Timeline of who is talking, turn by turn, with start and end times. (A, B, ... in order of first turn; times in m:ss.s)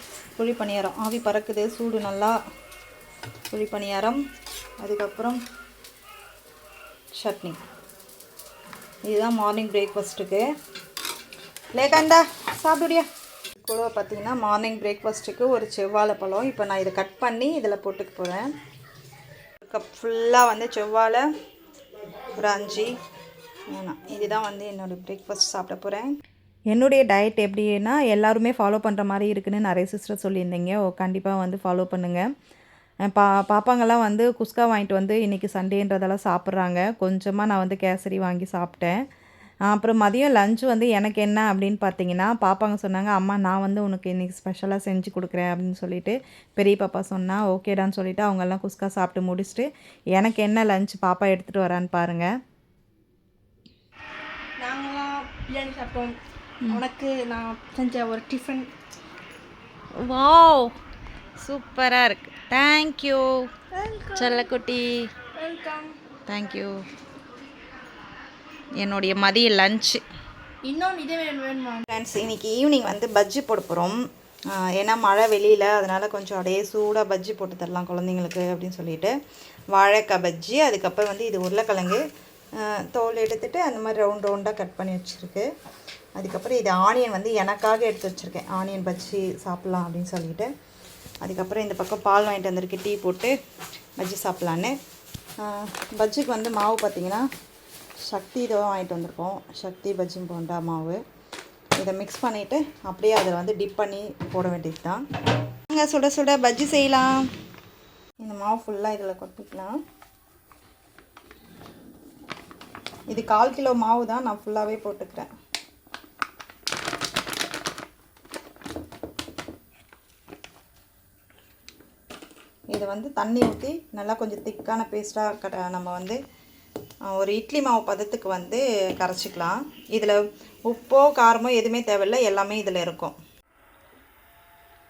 0:00.4-0:02.4 A
0:03.5-0:04.2 A
0:04.8-0:05.4 A
0:07.1-0:07.6 A
0:09.1-0:10.4 A
0:11.7-0:13.0 A
0:13.6-0:18.5 A
0:19.6-0:21.2 A
0:22.4-0:22.9 A
0:23.7-0:26.1 A
0:26.7-0:32.2 A
0:33.0-0:39.0 A
0:39.7-0:52.3 A
0:54.6-0:56.1 B
0:56.7-0:58.7 B
1:00.0-1:00.7 A
1:01.4-1:03.4 A
1:03.7-1:04.5 B
1:04.2-1:05.1 A
1:05.3-1:06.0 B
1:06.3-1:06.8 A
1:08.8-1:10.0 A
1:10.6-1:11.8 B
1:11.9-1:14.0 A
1:14.5-1:19.1 A
1:19.7-1:22.0 A
1:22.6-1:25.5 A
1:26.2-1:30.5 A
1:31.2-1:33.3 A
1:34.0-1:34.7 A
1:35.4-1:37.2 A
1:38.1-1:41.0 A
1:41.8-1:45.0 A
1:45.7-1:47.2 A
1:48.2-1:49.7 A
1:53.1-1:55.3 A
2:02.7-2:06.2 A
2:07.1-2:13.2 A